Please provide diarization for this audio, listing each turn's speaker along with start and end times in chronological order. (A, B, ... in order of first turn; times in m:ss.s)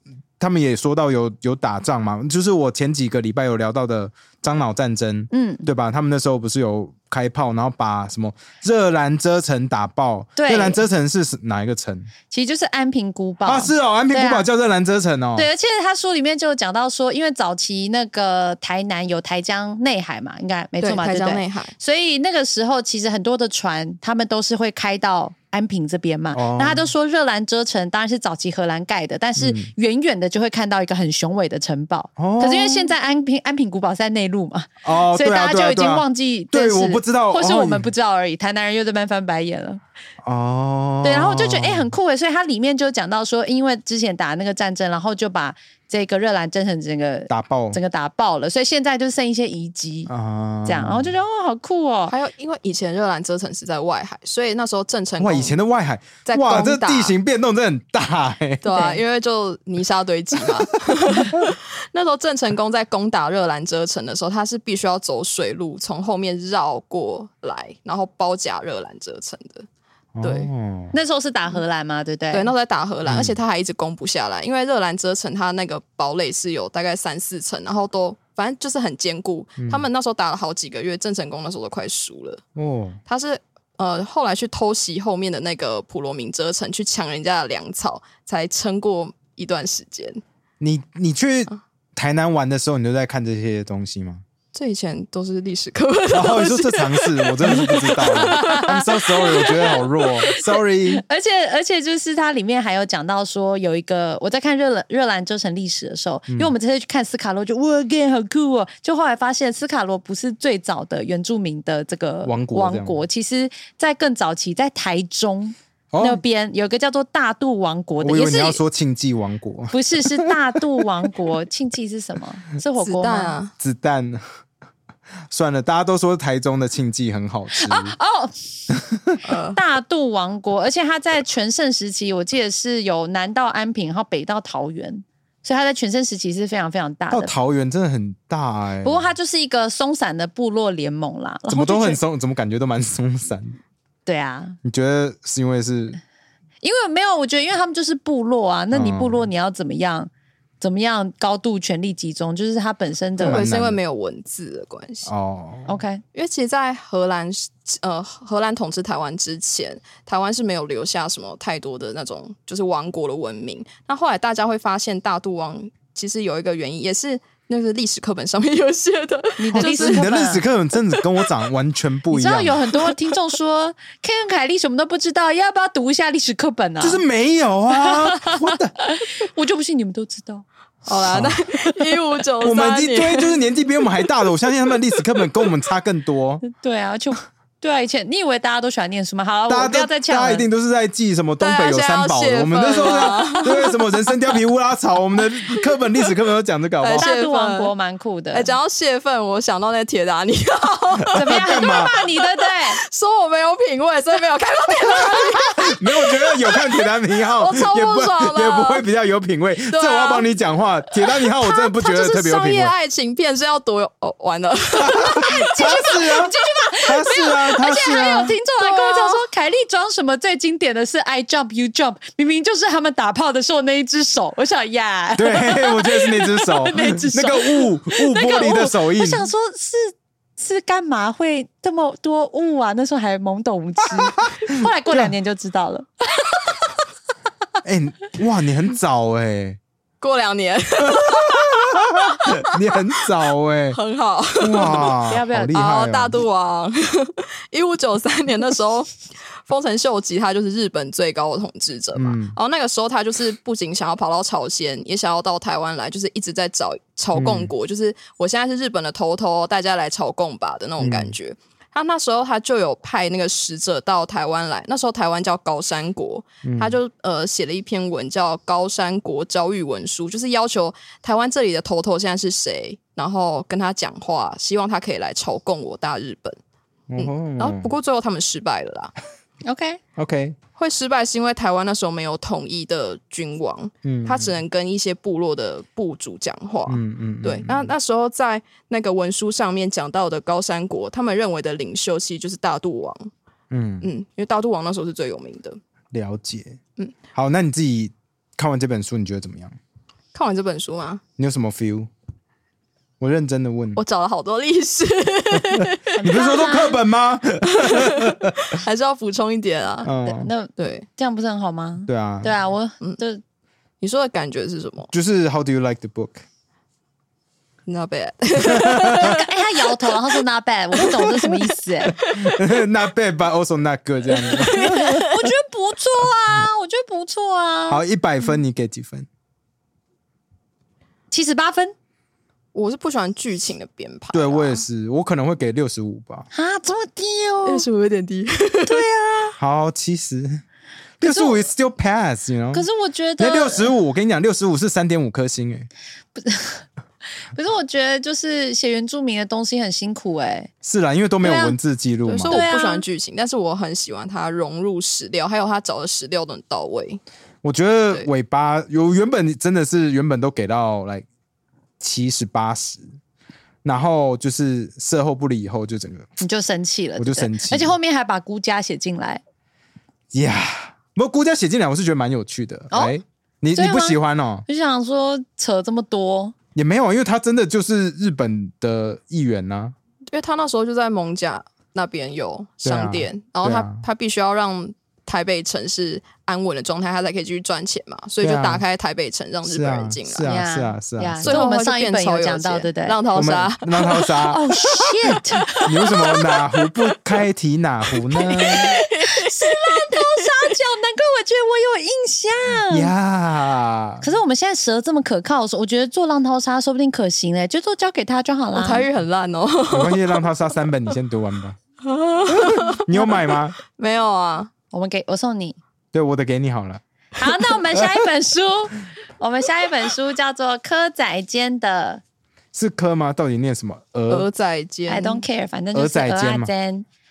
0:00.4-0:12.1 A
0:05.3-0:05.7 B
0:10.4-0:10.8 B
0:12.3-0:14.5 B
0:13.4-0:15.5 A
0:15.4-0:39.8 B
0:20.8-0:21.7 C
0:26.3-0:26.9 A
0:29.4-0:29.7 A
0:32.2-0:32.9 A
0:34.8-0:37.9 A
0:40.2-0:41.9 A
0:41.0-0:50.1 B
0:47.3-0:47.8 A
0:50.1-0:51.1 A
0:50.6-0:52.1 B
0:52.1-0:55.5 C
0:55.2-0:58.6 A
0:56.2-0:57.2 C
0:58.6-1:09.7 C
0:58.7-0:59.0 B
1:01.0-1:01.5 A
1:10.2-1:10.9 A
1:10.2-1:10.5 C
1:10.9-1:12.5 B
1:12.3-1:22.4 C
1:13.0-1:13.4 A
1:19.6-1:19.8 A
1:22.6-1:23.0 A
1:23.1-1:30.2 C
1:30.6-1:34.2 A
1:34.5-1:39.8 C
1:36.1-1:41.0 A
1:38.1-1:58.6 B
1:52.2-1:53.0 A
1:55.9-1:56.2 A
1:58.0-2:00.3 A
1:59.7-2:03.4 B
2:02.8-2:03.5 C
2:03.6-2:04.2 A
2:05.3-2:07.9 A
2:07.6-2:08.4 B
2:08.7-2:09.1 A
2:09.2-2:09.6 C
2:09.5-2:17.3 B
2:17.1-2:19.1 A
2:18.8-2:22.0 B
2:21.5-2:23.6 A
2:24.0-2:24.6 B
2:24.6-2:26.0 A
2:26.6-2:30.1 B
2:28.7-2:29.3 A
2:30.6-2:33.5 B
2:33.2-2:33.8 A
2:33.2-2:35.1 C
2:35.0-2:35.7 A
2:35.7-2:36.0 B
2:36.1-2:50.1 C
2:49.4-2:50.4 B
2:49.5-2:52.7 A
2:50.8-2:51.3 C
2:52.1-2:57.0 B
2:56.8-2:58.7 A
2:57.7-3:00.4 B
3:00.8-3:03.4 C
3:01.0-3:01.8 B
3:01.1-3:01.4 A
3:02.4-3:06.4 A
3:06.4-3:10.5 B
3:09.5-3:17.1 A
3:11.4-3:14.3 C
3:13.1-3:13.4 B
3:16.8-3:17.7 C
3:17.0-3:18.5 B
3:18.3-3:28.8 C
3:21.1-3:21.9 A
3:21.2-3:22.8 B
3:25.0-3:32.7 A
3:29.7-3:30.2 C
3:31.3-3:35.1 C
3:34.8-3:38.3 A
3:35.0-3:56.5 B
3:38.6-3:39.2 C
3:45.2-3:49.3 A
3:57.6-3:59.6 A
4:00.0-4:02.6 C
4:00.8-4:03.8 A
4:03.7-4:05.0 C
4:04.4-4:06.2 A
4:05.0-4:05.6 B
4:05.5-4:36.4 C
4:11.9-4:12.4 A
4:17.1-4:17.5 A
4:20.8-4:21.2 A
4:26.4-4:26.8 A
4:36.9-4:37.7 A
4:37.0-4:38.9 C
4:39.4-4:39.8 B
4:40.0-4:40.4 A
4:40.6-4:53.1 C
4:43.8-4:44.3 A
4:46.7-4:47.7 A
4:53.5-4:53.9 A
4:53.8-4:55.6 C
4:55.9-4:56.6 A
4:57.1-4:59.6 A
5:00.1-5:01.0 C
5:01.2-5:01.9 A
5:03.0-5:03.8 A
5:03.8-5:06.0 C
5:05.4-5:08.6 A
5:06.0-5:06.8 B
5:07.4-5:09.9 C
5:09.8-5:10.3 A
5:10.0-5:13.2 B
5:10.6-5:10.9 C
5:11.9-5:12.3 A
5:13.8-5:14.9 C
5:14.9-5:16.2 A
5:17.7-5:19.2 C
5:18.5-5:19.2 A
5:19.0-5:22.0 B
5:19.8-5:20.2 C
5:20.8-5:21.3 C
5:22.0-5:22.4 C
5:22.1-5:25.0 A
5:24.1-5:25.3 C
5:24.6-5:27.8 B
5:27.7-5:29.1 A
5:31.1-5:31.7 B
5:32.5-5:34.6 C
5:34.1-5:36.3 A
5:36.3-5:37.6 B
5:37.4-5:38.8 C
5:38.7-5:39.4 B
5:39.4-5:40.4 A
5:41.0-5:42.6 A
5:41.0-5:41.5 B
5:42.5-5:43.7 B
5:43.2-5:45.7 A
5:46.2-5:46.6 B
5:47.3-5:50.5 B
5:50.6-5:52.4 A
5:51.2-5:51.6 B
5:52.1-5:57.0 C
5:52.3-5:52.8 B
5:57.4-6:01.0 A
6:01.8-6:02.8 A
6:03.6-6:06.1 A
6:06.2-6:09.2 B
6:07.0-6:07.7 A
6:10.1-6:14.4 A
6:13.5-6:16.3 B
6:16.5-6:19.7 A
6:20.1-6:30.3 C
6:22.6-6:23.8 A
6:28.2-6:28.6 A
6:29.4-6:31.4 A
6:30.2-6:33.0 B
6:31.2-6:34.2 C
6:33.1-6:34.4 A
6:33.9-6:36.2 B
6:35.4-6:36.7 C
6:35.6-6:38.8 A
6:38.1-6:40.5 C
6:38.2-6:42.9 B
6:42.7-6:44.0 A
6:44.0-6:48.9 B
6:48.5-6:50.3 C
6:49.7-6:51.6 A
6:51.8-6:54.5 C
6:52.3-6:53.5 A
6:54.7-6:55.6 B
6:55.9-6:56.8 A
6:57.2-7:02.0 B
7:02.5-7:04.3 A
7:04.1-7:05.2 C
7:04.9-7:06.8 B
7:05.7-7:06.5 A